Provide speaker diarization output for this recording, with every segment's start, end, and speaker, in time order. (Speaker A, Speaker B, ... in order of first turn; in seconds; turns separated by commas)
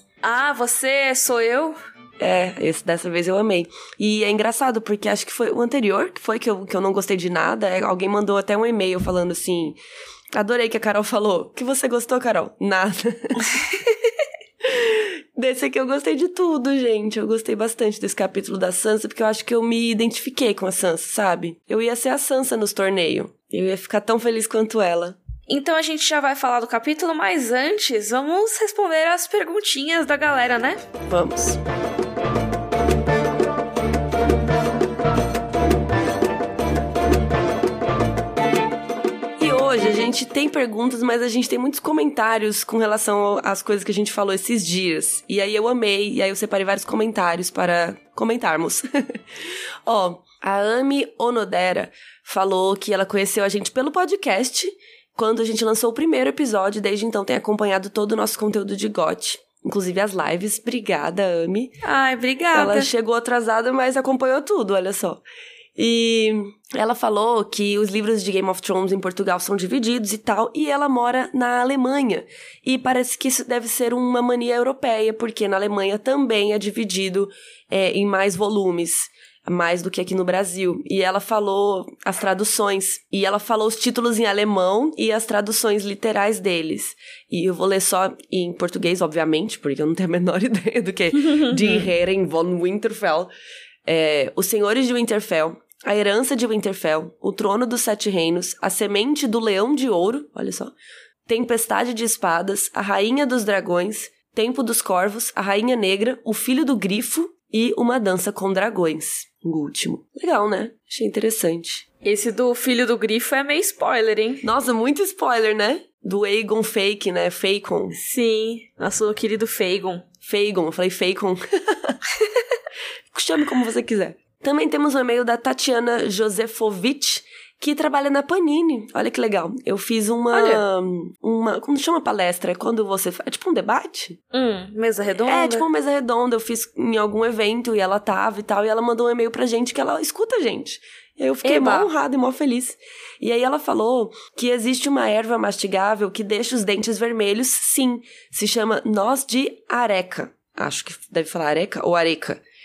Speaker A: 0.2-1.8, Speaker B: 2.2-9.8, Speaker B: 10.3-13.6, Speaker B: 14.6-25.2, Speaker A: 25.5-30.8, Speaker B: 31.1-31.6, Speaker B: 39.4-49.2, Speaker B: 49.8-61.8, Speaker A: 61.8-62.9, Speaker B: 62.5-65.2, Speaker B: 65.8-93.3, Speaker A: 91.2-91.9, Speaker B: 93.8-100.7, Speaker B: 101.3-111.8, Speaker A: 112.0-114.5, Speaker B: 114.4-118.0, Speaker A: 117.9-120.0, Speaker B: 120.2-122.0, Speaker B: 123.1-134.2, Speaker A: 130.3-130.6, Speaker A: 134.3-135.7, Speaker B: 135.2-152.4, Speaker A: 141.4-141.9